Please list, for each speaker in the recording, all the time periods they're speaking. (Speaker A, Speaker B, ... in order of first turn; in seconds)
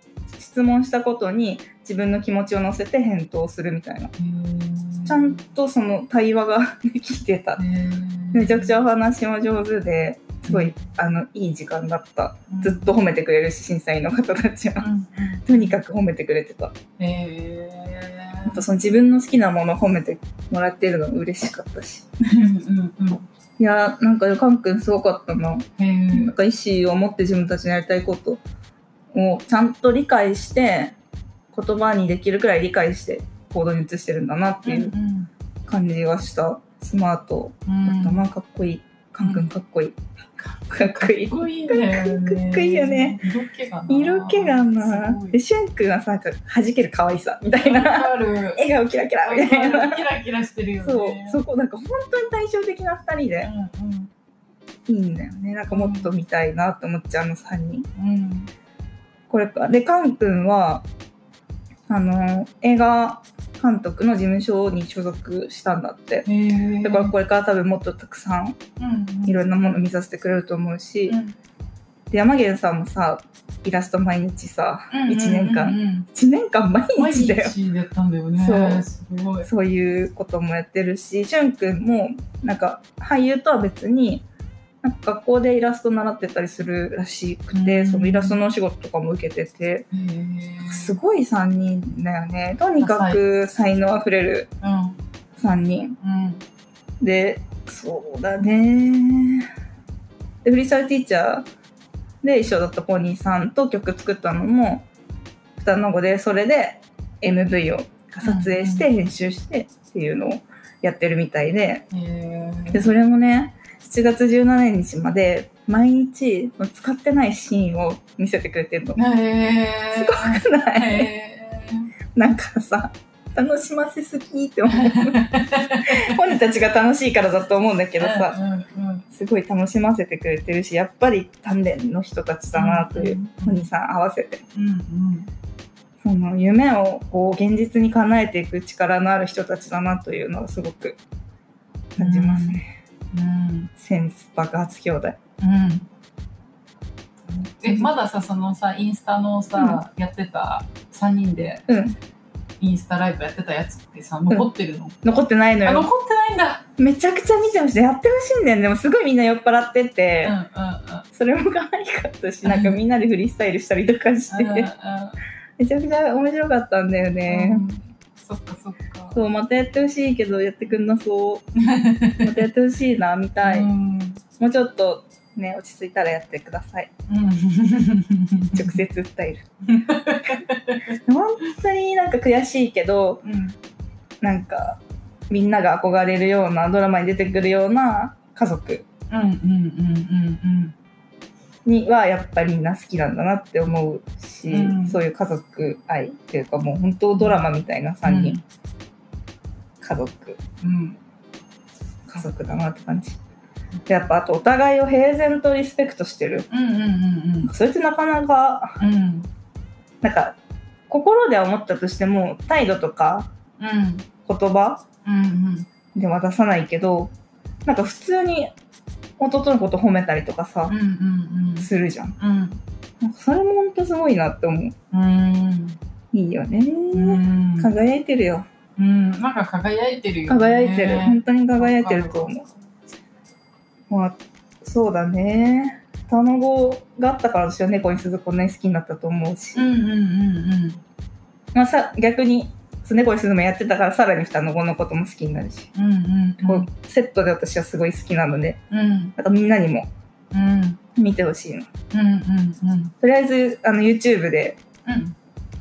Speaker A: 0.3-4.1, 5.0-7.6, 8.3-14.9, 15.4-16.7, 18.4-22.1, 23.6-28.4, 29.1-30.9, 31.5-34.9, 35.7-40.0, 40.7-43.2, 43.9-50.0, 50.8-53.5, 54.9-57.9, 59.3-60.8, 61.9-66.3, 66.8-68.6, 69.2-71.2, 72.1-77.5, 78.4-78.9, 79.4-84.2, 84.8-89.9, 90.7-94.5, 95.4-96.0, 97.0-99.5, 100.4-101.5, 102.2-104.8, 105.6-111.8, 112.7-119.0, 119.9-121.1, 122.1-125.2, 125.8-128.4, 129.1-134.4, 136.0-141.0, 141.9-142.7, 143.8-145.2, 149.6-149.8, 151.7-152.0, 155.0-155.9, 156.8-160.3, 161.1-164.7, 165.6-167.6, 169.1-171.4, 172.2-173.7, 174.4-176.9, 178.5-179.5, 180.9-183.2, 184.2-188.8, 191.6-198.4, 199.8-200.4, 202.1-203.2, 203.9-206.4, 207.5-208.8, 210.0-210.3, 210.9-213.3, 214.2-214.8, 215.9-217.1, 217.6-218.5, 219.2-220.7, 221.6-222.2, 223.0-224.7, 226.1-228.4, 230.3-232.4, 233.9-239.7, 241.5-245.7, 246.4-248.6, 249.2-249.9, 250.9-251.7, 253.0-254.6
Speaker B: 4.2-5.5, 7.6-8.8, 10.5-10.9, 12.5-12.9, 14.8-15.8, 17.0-18.6, 22.2-23.2, 25.8-26.3, 34.6-35.3, 37.7-38.2, 40.4-45.4, 47.6-48.6, 49.2-51.4, 53.4-54.1, 55.7-56.1, 58.0-58.5, 66.2-67.1, 68.8-69.4, 71.1-71.3, 74.9-76.1, 77.0-79.5, 87.5-88.4, 89.9-90.9, 92.8-93.2, 94.6-95.0, 96.0-96.4, 108.2-108.9, 111.9-112.9, 119.0-121.9, 124.7-126.2, 128.0-129.1, 132.5-133.7, 134.5-135.3, 142.0-142.6, 143.1-143.7, 145.4-145.9, 147.3-151.7, 152.6-155.1, 155.6-156.6, 160.2-161.1, 162.4-162.7, 164.3-165.2, 167.3-169.2, 171.6-172.3, 173.4-174.2, 177.1-178.8, 179.7-180.9, 183.2-183.6, 189.1-190.7, 194.5-195.0, 198.0-198.4, 200.6-201.0, 206.5-207.5, 208.8-209.3, 213.6-214.1, 215.0-215.7, 220.7-222.6, 224.9-225.8, 226.9-227.7, 228.8-232.6, 239.5-240.8, 245.7-246.7, 248.7-249.1, 250.3-250.8, 251.9-252.9, 254.8-255.1